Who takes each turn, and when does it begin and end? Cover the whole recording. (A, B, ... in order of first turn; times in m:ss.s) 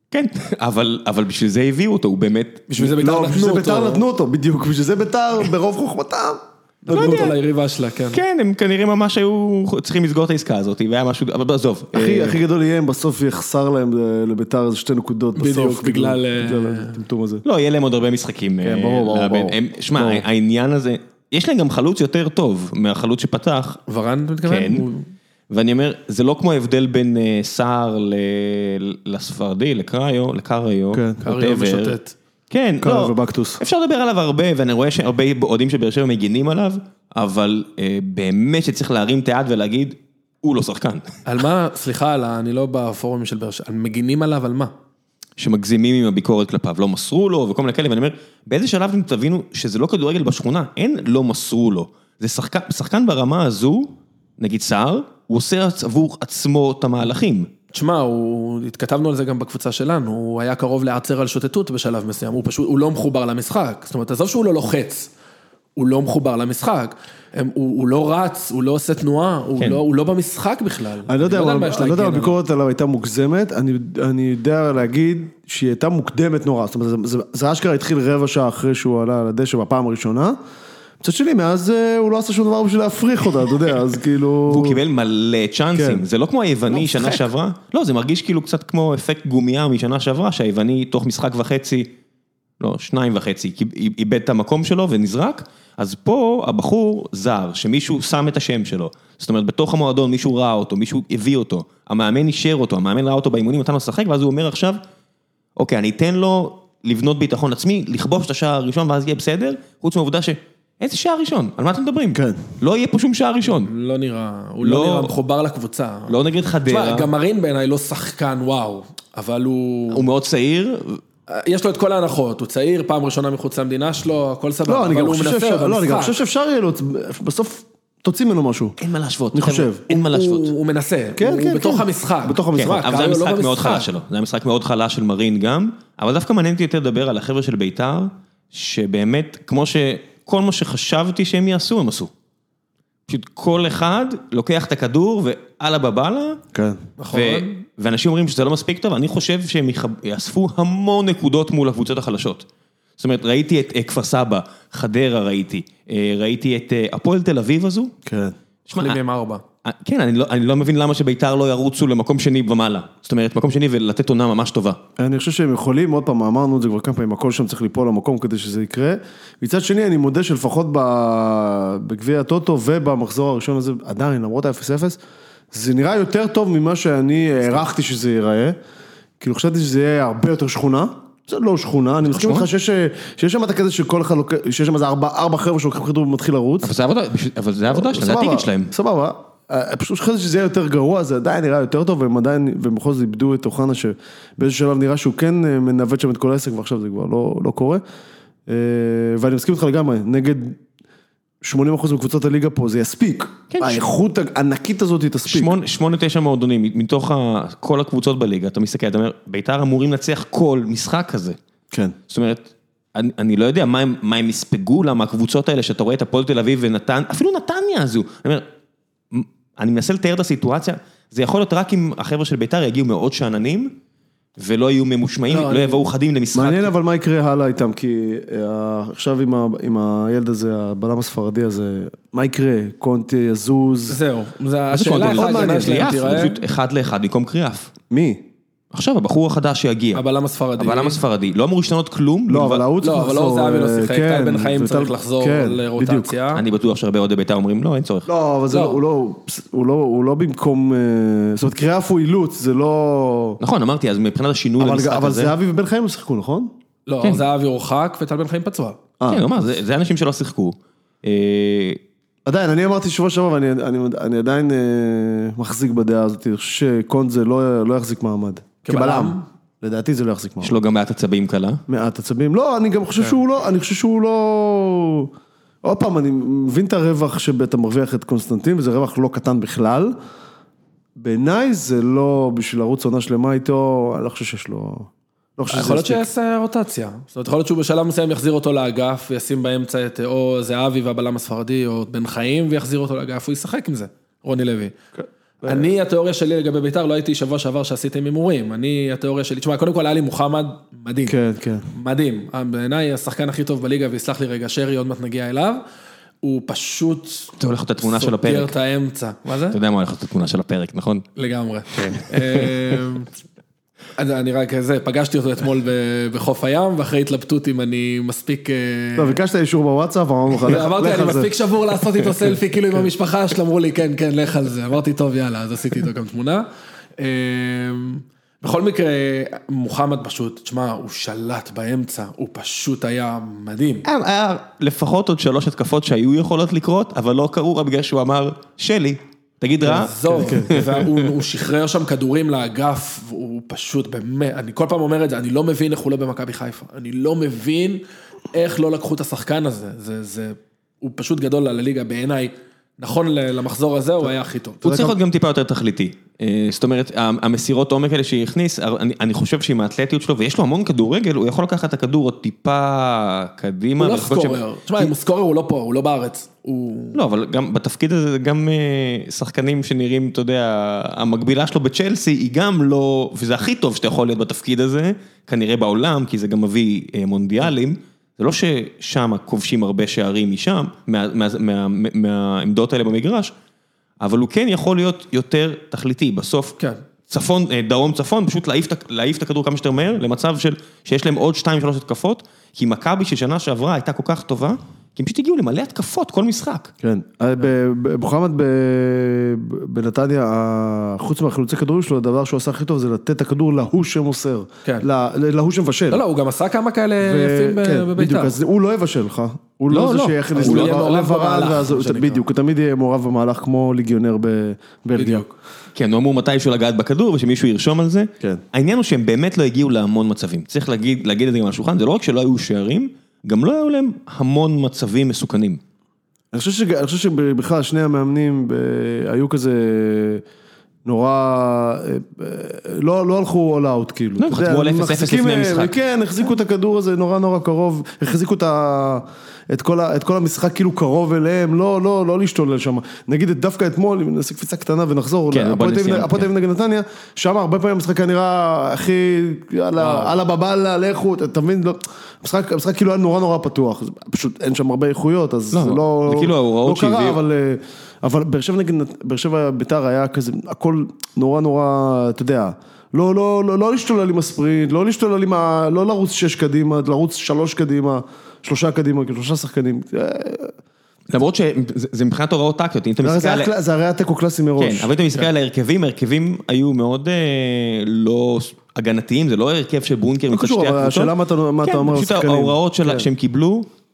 0:00.1-0:02.9 A
0:02.7-0:04.0 B
0:03.0-0:07.3 C
0:06.8-0:08.2 B
0:06.9-0:07.4 A
0:08.1-0:12.4 A
0:11.9-0:17.4 C
0:15.4-0:17.0 B
0:17.4-0:23.8 A
0:18.6-0:20.2 C
0:23.9-0:25.1 B
0:24.4-0:24.9 A
0:25.5-0:32.0 A
0:30.9-0:31.2 C
0:31.2-0:32.2 B
0:32.5-0:41.2 A
0:32.8-0:33.6 C
0:41.2-0:44.7 B
0:45.4-0:57.5 A
0:57.7-1:05.1 B
1:05.8-1:12.4 B
1:11.1-1:20.4 C
1:21.0-1:24.8 C
1:24.5-1:31.9 A
1:25.7-1:26.0 C
1:32.6-1:44.8 A
1:45.6-1:53.7 A
1:52.1-1:52.4 C
1:53.6-2:00.1 B
1:54.6-1:55.1 A
1:56.1-1:57.1 A
1:59.9-2:01.0 A
2:01.3-2:06.2 B
2:04.7-2:08.8 C
2:08.8-2:10.5 A
2:09.3-2:09.8 C
2:09.9-2:13.9 B
2:11.2-2:12.9 C
2:12.6-2:22.1 A
2:23.1-2:26.4 A
2:26.5-2:26.8 C
2:27.0-2:27.6 B
2:27.1-2:32.4 A
2:33.0-2:37.9 A
2:38.0-2:38.3 C
2:38.7-2:39.0 A
2:38.7-2:39.4 B
2:39.6-2:44.8 A
2:45.0-2:55.0 C
2:55.5-2:58.6 C
2:59.2-3:06.7 C
3:02.1-3:02.5 A
3:06.6-3:08.7 A
3:07.7-3:17.8 C
3:18.5-3:20.6 C
3:21.4-3:25.5 C
3:23.5-3:23.9 A
3:25.3-3:31.4 A
3:31.7-3:32.0 C
3:32.1-3:38.4 A
3:39.1-3:43.8 A
3:44.4-3:46.7 A
3:45.3-3:45.8 B
3:46.3-3:54.0 C
3:53.9-3:56.4 B
3:54.7-3:57.7 A
3:55.2-3:55.9 C
3:57.9-3:58.3 C
3:58.7-4:00.0 A
3:59.9-4:01.0 B
4:00.6-4:02.6 A
4:02.3-4:06.1 C
4:02.8-4:06.4 B
4:06.3-4:08.1 A
4:08.1-4:13.4 C
4:08.5-4:08.8 B
4:13.4-4:15.3 A
4:14.6-4:16.5 C
4:16.9-4:18.8 B
4:19.0-4:19.5 C
4:19.1-4:21.8 A
4:22.2-4:30.6 C
4:28.6-4:29.2 B
4:30.4-4:31.6 A
4:31.7-4:35.1 C
4:35.6-4:40.0 C
4:41.0-4:46.1 C
4:45.5-4:54.7 B
4:55.0-4:55.7 C
4:55.4-5:01.2 B
5:01.1-5:01.7 C
5:01.7-5:05.6 B
5:06.2-5:09.6 B
5:07.4-5:08.5 A
5:09.5-5:11.0 A
5:11.2-5:13.1 B
5:11.7-5:12.6 A
5:14.0-5:19.2 B
5:19.0-5:21.3 C
5:20.4-5:26.5 B
5:27.0-5:33.8 B
5:33.8-5:40.9 A
5:39.6-5:55.0 B
5:40.2-5:40.5 C
5:54.6-6:04.9 A
6:03.8-6:07.0 B
6:06.9-6:23.3 A
6:24.0-6:26.6 A
6:27.1-6:36.7 A
6:36.8-6:46.0 C
6:45.9-6:48.4 B
6:47.0-6:55.3 C
6:49.7-6:50.8 A
6:50.3-6:52.2 B
6:54.9-6:55.3 B
6:55.7-7:05.6 A
7:06.3-7:10.2 C
7:10.8-7:50.5 C
7:14.2-7:15.7 A
7:25.3-7:26.3 A
7:29.8-7:30.1 B
7:35.5-7:37.2 A
7:51.1-7:53.5 A
7:53.0-7:54.9 C
7:54.6-8:01.1 A
8:00.3-8:03.0 C
8:01.6-8:03.7 A